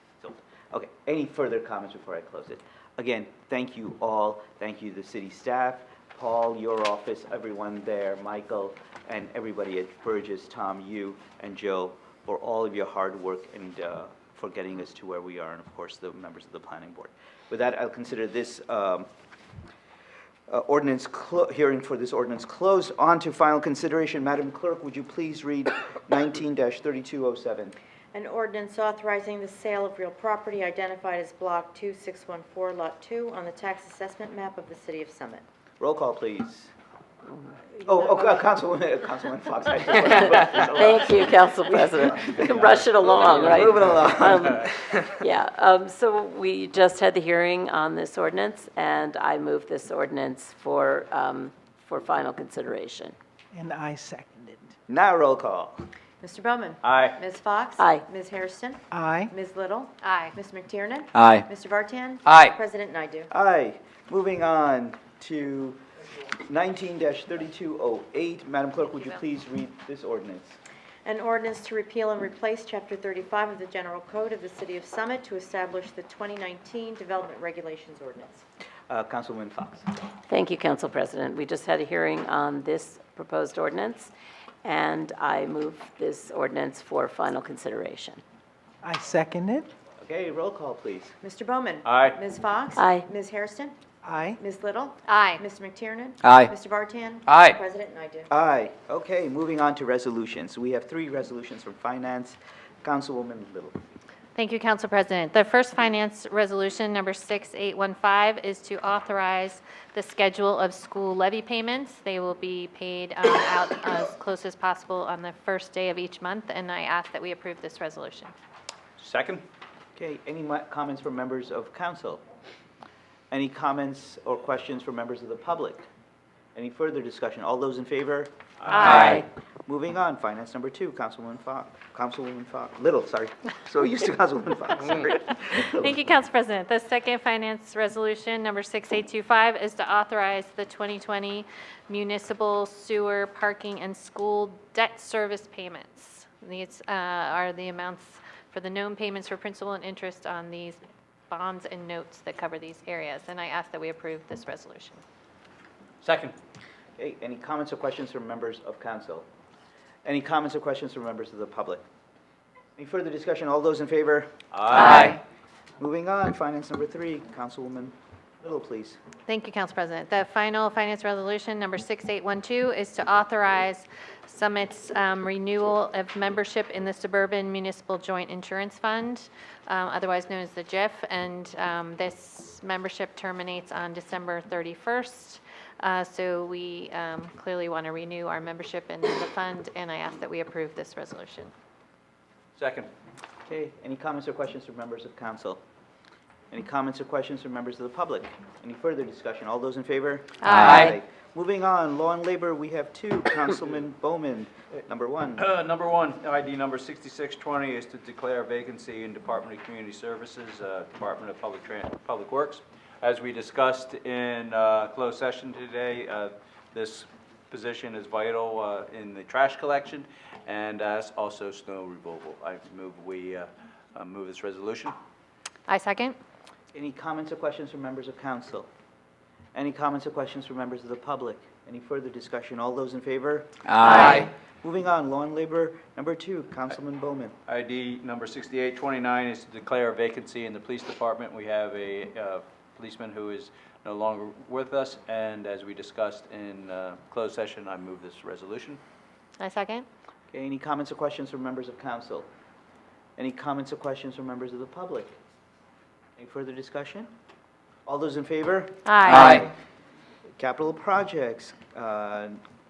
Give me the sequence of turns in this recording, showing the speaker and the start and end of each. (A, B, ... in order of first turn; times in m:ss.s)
0:00.2-0:19.1 A
0:20.5-0:27.8 A
0:28.1-0:35.4 B
0:35.8-0:36.7 A
0:37.8-0:44.7 A
0:40.5-0:53.2 C
0:53.5-0:54.6 D
0:54.9-0:55.8 A
0:56.2-1:03.3 B
0:56.8-0:57.2 E
0:58.9-0:59.3 D
1:00.0-1:00.3 F
1:01.1-1:01.5 D
1:02.3-1:02.5 D
1:03.3-1:10.6 A
1:11.0-1:18.4 B
1:18.9-1:19.9 A
1:20.3-1:24.1 C
1:24.6-1:28.2 C
1:28.8-1:29.7 D
1:30.0-1:31.1 A
1:31.2-1:33.8 B
1:31.8-1:32.2 E
1:32.8-1:33.0 C
1:34.0-1:34.4 D
1:34.4-1:38.3 B
1:35.1-1:35.4 F
1:36.2-1:36.5 D
1:37.3-1:37.6 D
1:38.3-1:43.8 A
1:44.4-1:58.3 F
1:59.0-1:59.4 E
2:00.0-2:02.2 A
2:03.3-2:05.8 A
2:06.6-2:15.7 A
2:08.6-2:09.0 E
2:08.7-2:09.2 F
2:08.9-2:09.2 D
2:15.5-2:35.0 F
2:36.0-2:36.4 E
2:37.0-2:39.3 A
2:40.0-2:41.8 A
2:42.8-2:45.0 A
2:44.5-2:45.2 E
2:45.8-2:49.0 A
2:49.3-3:11.5 F
3:12.6-3:12.9 E
3:13.5-3:15.6 A
3:16.5-3:25.4 A
3:20.4-3:21.0 F
3:20.5-3:20.9 D
3:25.4-3:44.9 E
3:45.7-3:46.2 F
3:46.7-3:48.7 A
3:49.6-3:57.4 A
3:53.7-3:54.3 D
3:54.0-3:54.2 E
3:57.5-4:08.8 E
4:09.4-4:09.9 F
4:10.3-4:12.3 A
4:13.2-4:15.2 A
4:16.2-4:17.1 A
4:17.9-4:19.5 A
4:18.8-4:19.4 F
4:19.1-4:19.4 D
4:20.4-4:22.4 A